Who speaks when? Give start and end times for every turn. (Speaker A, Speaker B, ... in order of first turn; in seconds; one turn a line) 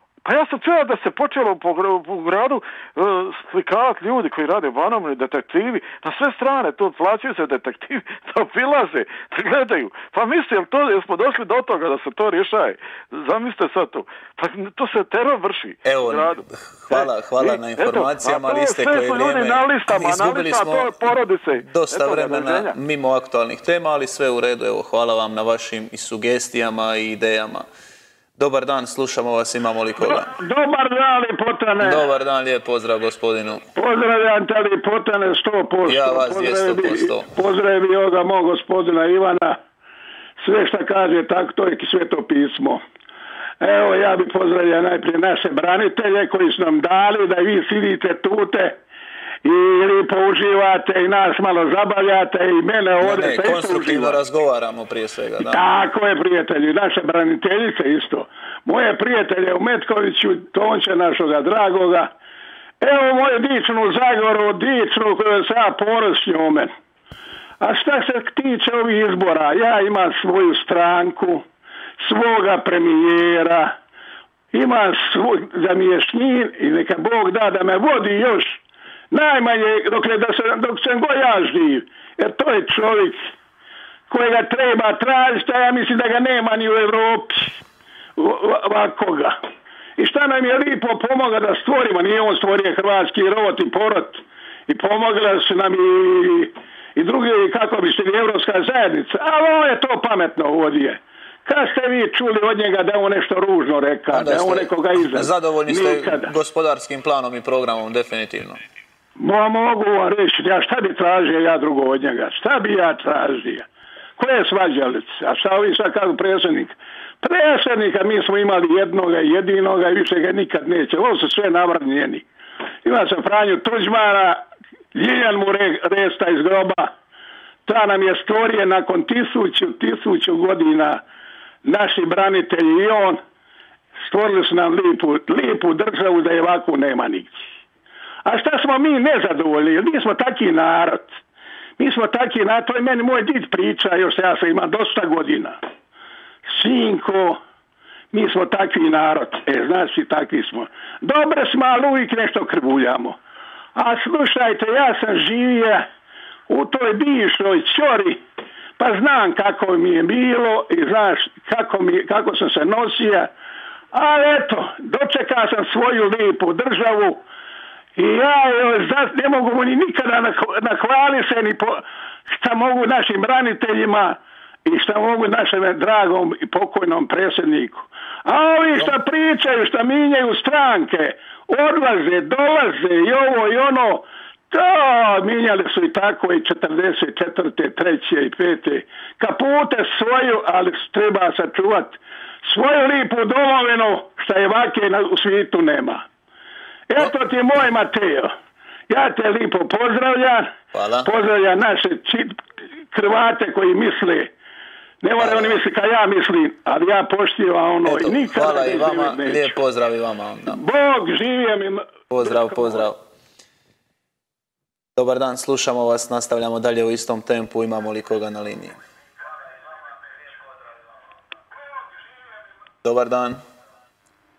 Speaker A: 0.2-16.4
Speaker B: 15.8-27.7
Speaker A: 16.9-22.7
Speaker B: 28.4-30.3
Speaker C: 30.0-32.1
Speaker B: 31.8-33.6
Speaker C: 33.8-39.6
Speaker B: 35.9-37.3
Speaker C: 40.4-42.8
Speaker C: 43.6-48.8
Speaker C: 49.4-54.2
Speaker B: 53.0-55.6
Speaker C: 55.4-62.1
Speaker C: 62.8-66.7
Speaker C: 67.6-71.5
Speaker C: 72.0-73.7
Speaker C: 74.5-78.6
Speaker C: 79.1-83.3
Speaker C: 84.1-87.6
Speaker C: 88.2-89.4
Speaker C: 90.0-106.3
Speaker B: 104.1-108.6
Speaker C: 109.2-113.7
Speaker C: 114.2-122.2
Speaker C: 122.8-124.4
Speaker C: 125.0-126.9
Speaker C: 127.7-131.0
Speaker C: 131.7-133.2
Speaker C: 134.1-137.5
Speaker C: 138.2-141.2
Speaker C: 141.8-145.6
Speaker C: 146.5-147.4
Speaker C: 148.1-153.2
Speaker C: 153.8-155.9
Speaker C: 156.5-158.2
Speaker C: 158.8-163.3
Speaker C: 163.9-167.2
Speaker C: 168.0-196.0
Speaker C: 196.9-198.3
Speaker C: 198.9-200.5
Speaker B: 200.7-201.1
Speaker C: 201.0-204.3
Speaker C: 205.0-209.5
Speaker B: 205.2-205.6
Speaker B: 207.8-210.6
Speaker C: 210.5-212.7
Speaker B: 212.1-213.0
Speaker B: 215.0-218.8
Speaker B: 222.8-223.4